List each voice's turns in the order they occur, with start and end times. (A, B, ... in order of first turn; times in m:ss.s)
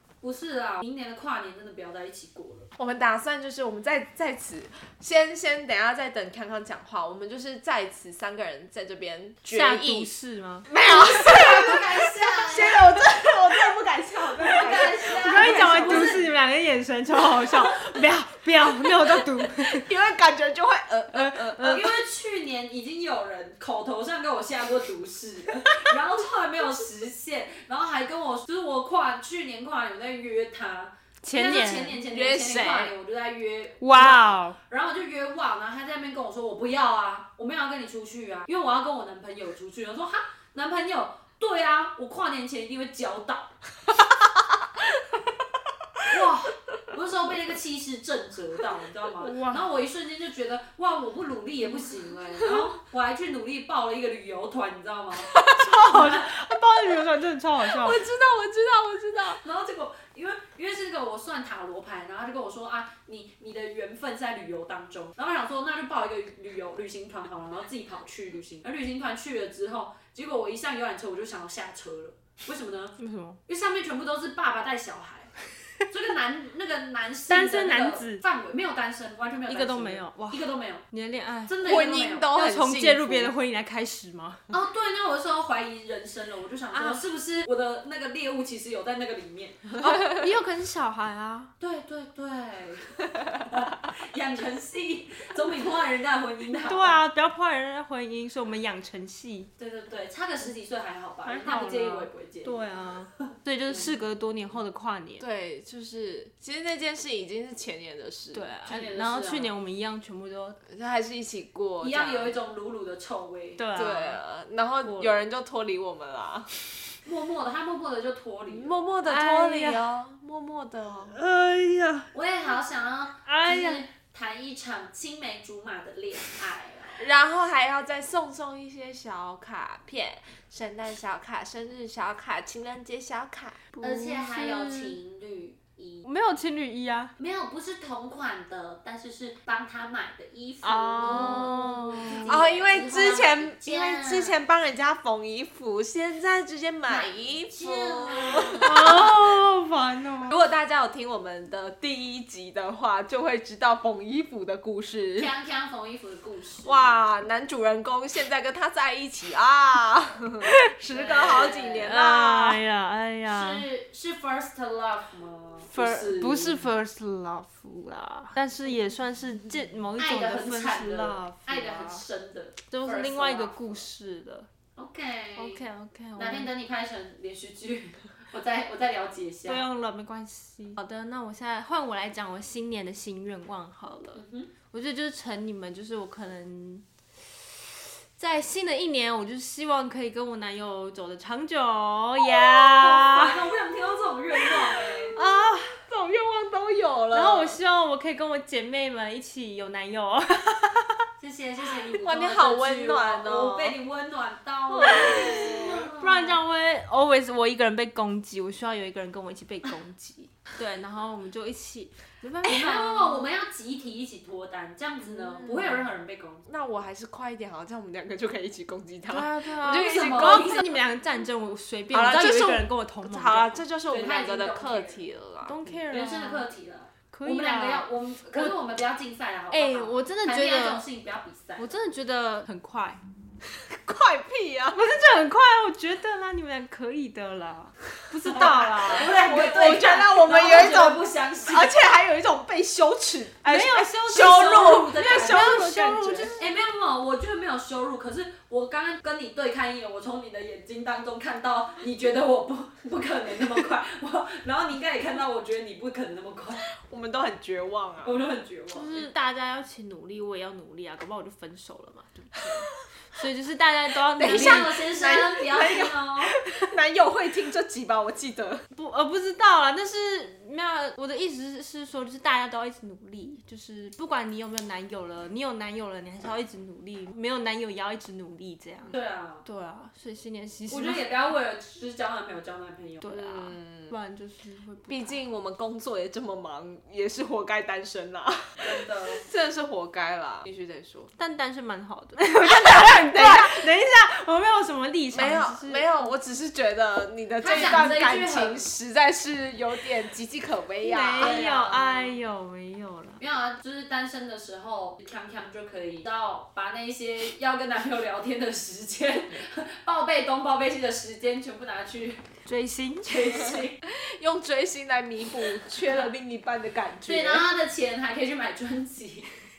0:00.2-0:02.7 A
0:02.8-0:10.1 B
0:09.5-0:10.7 C
0:10.7-0:16.3 B
0:10.8-0:12.8 A
0:14.4-0:16.3 A
0:15.1-0:19.9 C
0:18.8-0:21.8 B
0:21.1-0:21.9 C
0:21.6-0:43.5 A
0:31.2-0:32.0 C
0:32.1-0:32.9 B
0:33.8-0:34.6 C
0:46.1-0:56.3 A
0:49.2-0:49.6 C
0:55.4-0:58.0 C
0:57.6-0:59.4 B
0:59.4-1:13.0 A
1:13.0-1:13.4 C
1:13.5-1:15.3 A
1:15.9-1:20.8 A
1:17.3-1:18.2 C
1:19.5-1:24.4 C
1:21.5-1:22.3 A
1:21.6-1:23.3 B
1:24.5-1:29.7 A
1:29.8-1:31.5 C
1:31.6-1:37.0 A
1:36.6-1:39.5 C
1:39.6-1:42.6 A
1:41.2-1:45.2 C
1:43.2-1:43.9 A
1:45.2-1:48.5 B
1:48.3-1:50.6 C
1:48.6-1:49.5 A
1:50.7-1:52.4 B
1:51.8-1:53.6 A
1:53.6-1:54.2 C
1:53.7-1:56.8 B
1:54.8-1:55.2 C
1:57.0-1:58.8 A
1:58.5-2:01.2 B
1:59.0-1:59.8 C
2:01.1-2:02.1 C
2:02.1-2:07.1 A
2:03.2-2:03.8 C
2:07.0-2:13.6 B
2:13.7-2:15.0 C
2:13.8-2:16.1 A
2:16.0-2:17.1 C
2:17.2-2:24.4 A
2:20.6-2:22.4 C
2:21.0-2:29.2 B
2:26.9-2:28.9 A
2:28.6-2:30.4 C
2:30.2-2:35.3 B
2:35.2-2:36.9 A
2:36.6-2:42.6 B
2:40.4-2:40.7 C
2:40.9-2:41.9 A
2:41.8-2:43.6 C
2:43.3-2:46.7 A
2:45.7-2:52.0 C
2:50.0-2:53.8 A
2:52.7-2:54.5 C
2:54.8-2:55.6 A
2:55.4-2:56.5 C
2:56.2-2:59.6 A
2:59.4-3:13.4 C
3:04.2-3:04.5 A
3:12.7-3:15.1 A
3:15.2-3:17.6 B
3:17.1-3:21.0 C
3:21.2-3:26.4 A
3:21.9-3:23.8 B
3:24.8-3:25.9 B
3:24.8-3:33.3 C
3:32.4-3:36.4 A
3:35.0-3:35.8 B
3:36.4-3:40.7 B
3:39.1-3:43.6 C
3:39.6-3:40.7 A
3:41.9-3:45.8 B
3:43.9-3:45.0 A
3:45.4-3:46.5 C
3:45.9-3:51.7 A
3:47.1-3:48.5 C
3:49.5-3:50.8 C
3:51.6-3:53.0 C
3:53.4-3:54.8 B
3:54.7-3:59.1 C
3:58.3-4:01.7 A
3:58.3-4:06.4 B
4:03.4-4:06.4 C
4:03.7-4:05.7 A
4:06.4-4:16.6 A
4:16.7-4:18.2 B
4:18.0-4:19.1 A
4:18.7-4:24.8 C
4:24.1-4:28.6 B
4:24.2-4:26.3 A
4:28.7-4:41.1 C
4:38.9-4:39.4 A
4:40.7-4:43.1 A
4:43.0-4:45.2 C
4:43.1-4:43.9 B
4:44.9-4:51.1 B
4:48.6-4:49.2 A
4:51.2-4:56.1 C
4:52.4-4:53.7 B
4:55.1-5:01.4 B
4:57.4-4:58.7 A
5:00.8-5:03.2 C
5:01.2-5:02.2 A
5:03.2-5:12.3 A
5:12.4-5:13.6 C
5:13.0-5:13.8 A
5:13.8-5:17.4 B
5:17.0-5:19.3 A